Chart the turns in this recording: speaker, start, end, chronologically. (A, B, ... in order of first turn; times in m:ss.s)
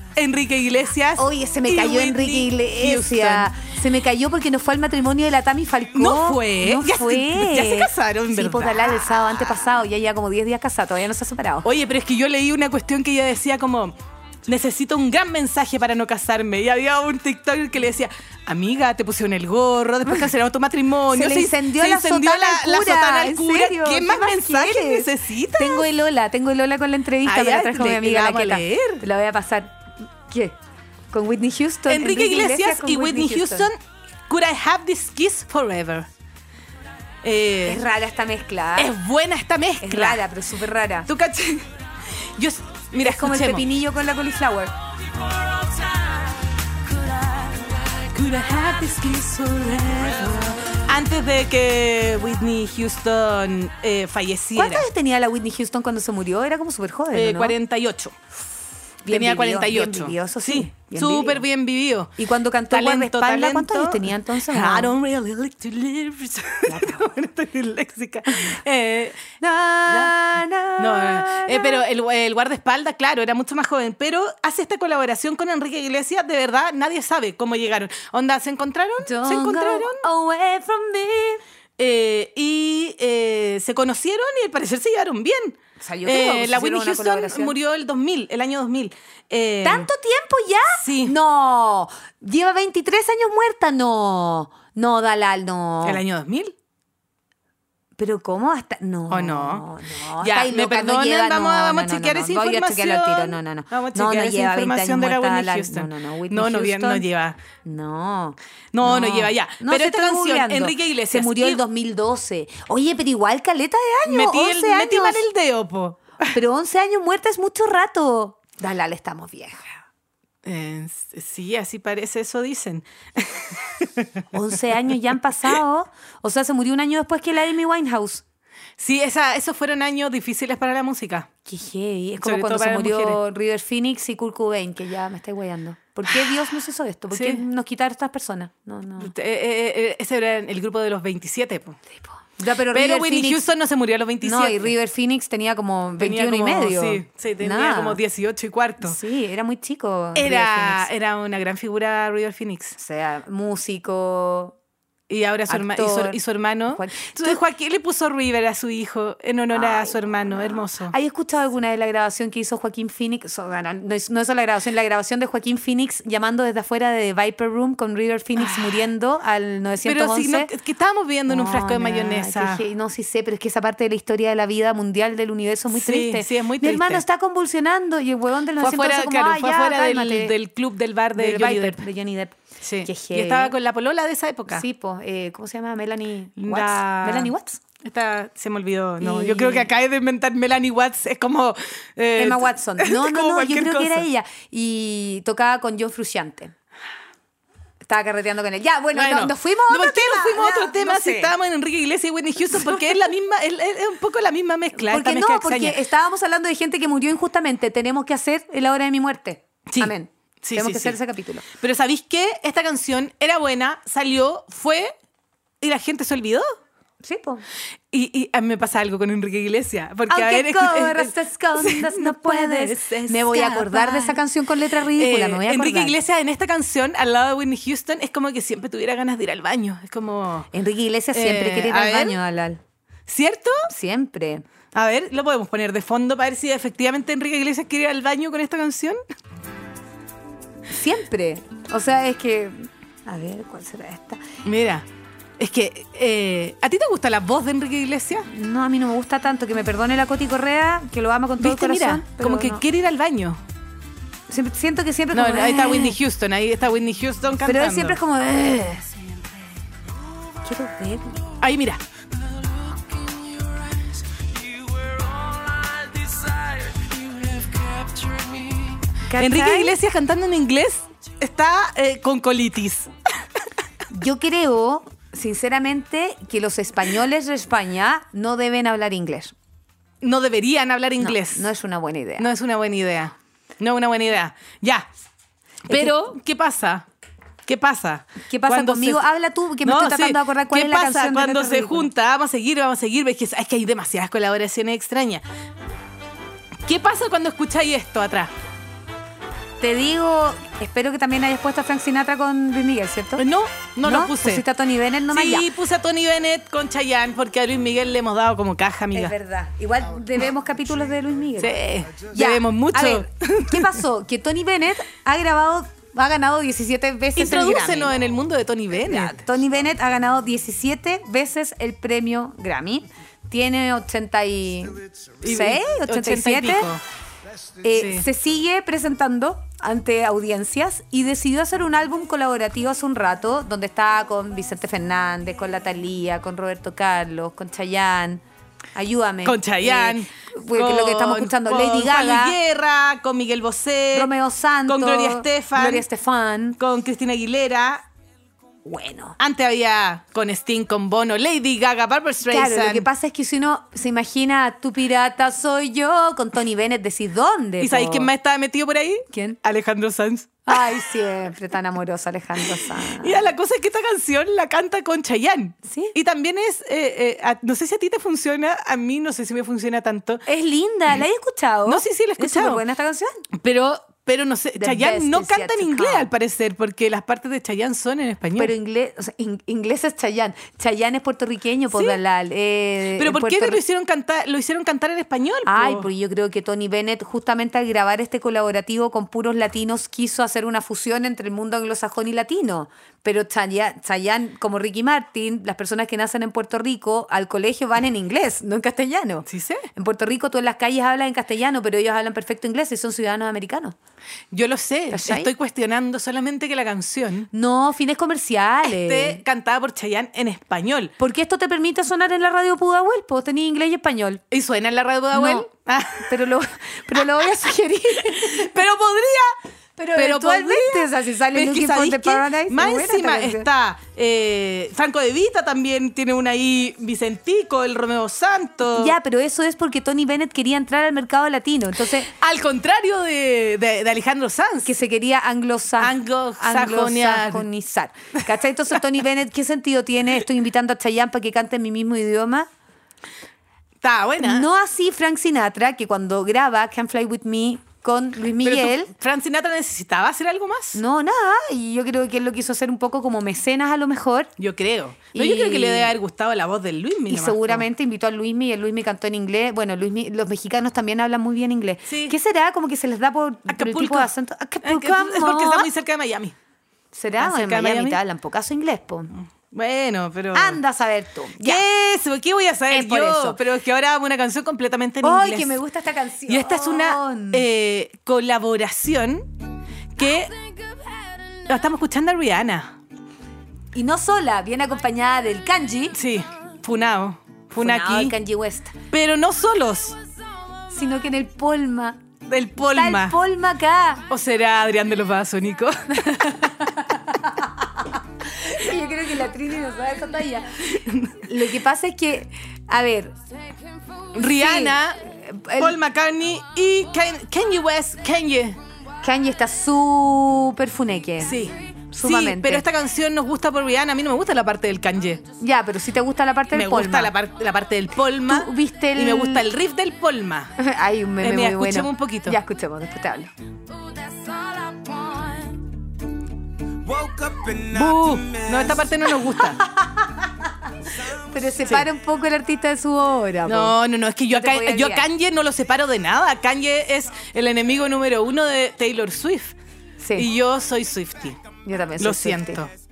0:00.1-0:03.5 A
0:01.2-0:11.6 B
0:05.9-0:09.1 A
0:11.6-0:25.9 A
0:21.1-0:30.6 B
0:27.2-0:29.0 A
0:31.1-0:33.7 B
0:31.9-0:36.1 A
0:37.2-0:37.8 A
0:37.6-0:38.9 B
0:38.8-0:40.2 A
0:39.8-0:41.1 B
0:41.1-0:41.7 A
0:42.2-0:43.6 A
0:43.0-0:44.7 B
0:47.0-0:54.9 A
0:54.5-0:57.6 B
0:57.1-0:58.1 A
0:59.0-1:01.4 B
0:59.1-1:02.1 A
1:02.2-1:04.9 B
1:02.7-1:09.2 A
1:06.7-1:07.1 B
1:09.4-1:11.8 B
1:09.9-1:10.1 A
1:10.8-1:20.0 A
1:19.0-1:21.4 B
1:21.8-1:29.9 A
1:25.8-1:27.6 B
1:29.6-1:36.0 B
1:30.8-1:31.1 A
1:35.8-1:36.5 A
1:38.0-1:47.0 B
1:39.1-1:39.6 A
1:40.2-1:47.4 A
1:47.6-1:55.2 B
1:48.7-1:51.6 A
1:54.1-1:56.3 A
1:56.3-1:59.7 B
2:00.4-2:04.2 A
2:04.3-2:08.2 B
2:08.8-2:11.3 A
2:11.4-2:19.1 B
2:12.2-2:13.2 A
2:17.1-2:17.4 A
2:19.0-2:21.8 A
2:22.2-2:23.4 B
2:22.7-2:24.7 A
2:24.2-2:28.0 B
2:26.0-2:29.0 A
2:28.8-2:30.9 B
2:30.1-2:32.8 A
2:32.8-2:34.5 B
2:35.1-2:40.9 A
2:35.5-2:37.4 B
2:39.5-2:50.5 B
2:48.4-2:48.8 A
2:49.8-2:52.6 A
2:51.3-3:00.3 B
2:55.7-2:57.0 A
2:58.6-3:01.8 A
3:01.1-3:03.5 B
3:02.6-3:04.6 A
3:04.5-3:07.6 B
3:06.4-3:14.0 A
3:09.0-3:09.7 B
3:12.2-3:16.5 B
3:17.8-3:21.3 B
3:18.9-3:25.8 A
3:24.8-3:31.4 B
3:29.7-3:31.0 A
3:31.5-3:34.9 A
3:35.6-3:36.5 A
3:37.0-3:37.4 B
3:37.9-3:44.2 A
3:40.1-3:45.9 B
3:44.8-3:50.5 A
3:50.5-3:52.6 B
3:51.1-3:52.2 A
3:53.1-3:53.7 A
3:53.7-3:54.4 B
3:54.7-3:59.0 A
4:00.7-4:04.2 B
4:04.4-4:04.8 A
4:05.4-4:08.3 A
4:08.3-4:12.6 B
4:11.4-4:13.4 A
4:14.3-4:16.0 B
4:15.1-4:18.0 A
4:17.4-4:19.0 B
4:20.4-4:21.2 B
4:21.4-4:21.8 A
4:22.3-4:28.8 C
4:29.1-4:29.8 B
4:29.2-4:32.9 A
4:33.9-4:39.3 B
4:40.0-4:41.5 A
4:41.0-4:42.3 B
4:42.2-4:44.9 A
4:45.7-4:46.8 A
4:45.7-4:46.0 B
4:47.4-4:49.0 A
4:48.2-4:51.9 B
4:49.6-4:55.2 A
4:56.6-4:58.3 A
4:59.6-5:03.2 B
5:03.2-5:04.4 A
5:03.8-5:05.5 B
5:05.1-5:09.1 A
5:08.9-5:11.6 B
5:11.4-5:13.8 A
5:12.1-5:18.0 B
5:17.2-5:19.2 A
5:18.8-5:26.7 B
5:25.2-5:26.8 A
5:27.6-5:38.2 B
5:27.7-5:28.0 A
5:38.7-5:42.4 B
5:39.2-5:44.1 A
5:43.9-5:46.6 B
5:44.7-5:45.8 A
5:46.6-5:47.8 A
5:48.6-5:49.2 B
5:49.2-5:52.9 A
5:52.3-5:58.1 B
5:57.6-6:00.8 A
5:59.1-5:59.4 B
6:00.4-6:03.3 B
6:02.4-6:10.2 A
6:05.6-6:06.0 B
6:10.2-6:13.2 B
6:11.7-6:12.6 A
6:13.4-6:18.5 A
6:14.6-6:16.1 B
6:18.4-6:23.6 B
6:21.7-6:22.0 A
6:23.0-6:25.9 A
6:25.4-6:43.7 B
6:39.3-6:39.6 A
6:44.3-6:47.3 A
6:44.9-6:45.3 B
6:47.3-6:49.2 B
6:48.6-6:50.9 A
6:51.0-6:54.2 B
6:54.3-6:56.1 A
6:55.1-6:55.5 B
6:56.0-6:58.5 B
6:58.0-6:59.3 A
6:59.8-7:03.5 B
7:00.0-7:08.9 A
7:08.7-7:12.1 B
7:12.0-7:14.7 A
7:14.6-7:22.5 B
7:15.8-7:17.4 A
7:23.8-7:24.5 A
7:24.2-7:28.9 B
7:28.4-7:30.8 A
7:30.7-7:34.3 B
7:34.4-7:37.6 A
7:35.1-7:35.9 B
7:37.1-7:45.7 B
7:41.8-7:42.2 A
7:43.5-7:44.1 A
7:44.6-7:46.4 A
7:46.9-7:49.1 B
7:47.2-7:48.0 A
7:49.1-7:50.6 A
7:50.3-7:51.6 B
7:51.4-7:55.6 A
7:52.7-7:53.4 B
7:55.0-7:57.4 B
7:56.3-7:59.3 A
7:59.9-8:00.4 A
8:01.4-8:02.7 A
8:03.7-8:06.0 B
8:05.9-8:08.2 A
8:07.6-8:08.7 B
8:08.9-8:10.0 A
8:10.7-8:12.0 B
8:12.2-8:13.2 A
8:12.6-8:14.0 B
8:14.1-8:16.4 A
8:15.9-8:23.1 B
8:20.8-8:21.2 A
8:24.1-8:25.0 A
8:24.1-8:25.8 B
8:25.6-8:28.6 A
8:29.0-8:31.4 B
8:31.2-8:35.2 A
8:31.9-8:32.6 B
8:35.4-8:37.1 B
8:36.5-8:40.5 A
8:38.2-8:39.4 B
8:40.6-8:43.3 B
8:41.2-8:42.4 A
8:46.9-8:48.4 C
8:47.6-8:49.6 A
8:51.1-8:53.8 B
8:53.4-8:59.6 A
8:54.3-8:55.1 B
9:00.0-9:00.3 B
9:00.2-9:01.4 A
9:01.6-9:02.6 B
9:02.0-9:02.7 A